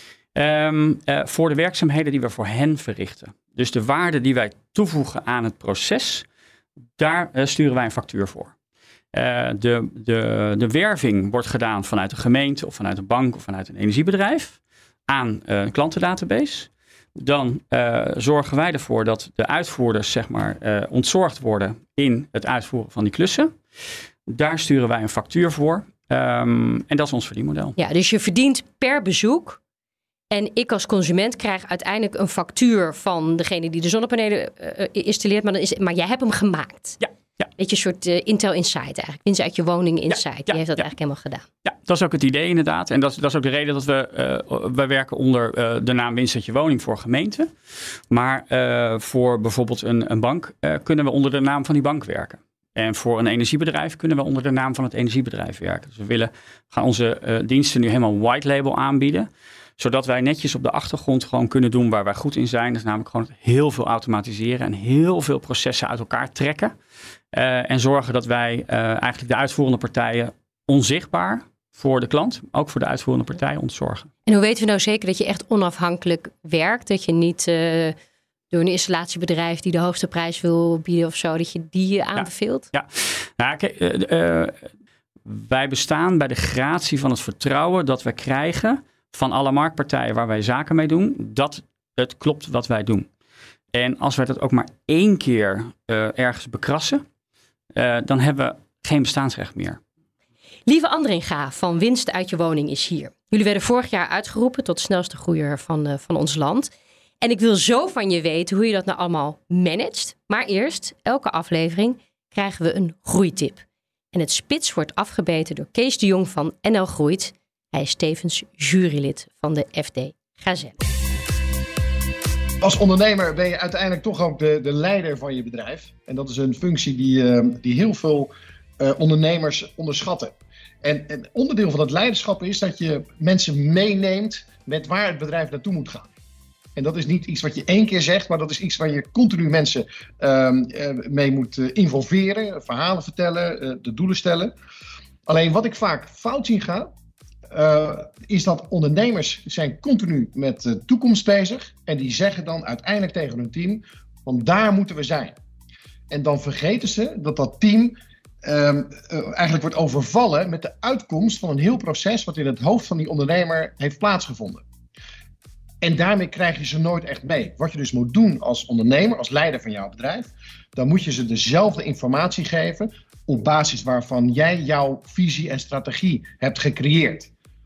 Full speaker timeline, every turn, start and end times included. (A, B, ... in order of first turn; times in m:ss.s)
0:00.4-0:06.2 A
0:07.0-0:08.5 A
0:09.1-0:23.5 A
0:24.3-0:27.8 A
0:27.8-0:29.6 B
0:30.3-0:37.0 B
0:37.0-0:37.4 A
0:37.6-0:41.5 B
0:40.1-0:40.8 A
0:41.6-0:47.5 A
0:48.1-1:06.7 A
1:07.3-1:14.1 A
1:14.3-1:18.0 B
1:18.5-1:22.7 B
1:22.2-1:24.7 A
1:25.2-1:33.1 A
1:33.7-1:37.0 A
1:37.8-1:39.8 A
1:40.7-2:00.8 B
2:02.6-2:16.1 C
2:16.8-2:24.6 C
2:25.3-2:26.9 C
2:27.5-2:35.4 C
2:36.1-2:44.6 C
2:45.8-2:57.3 C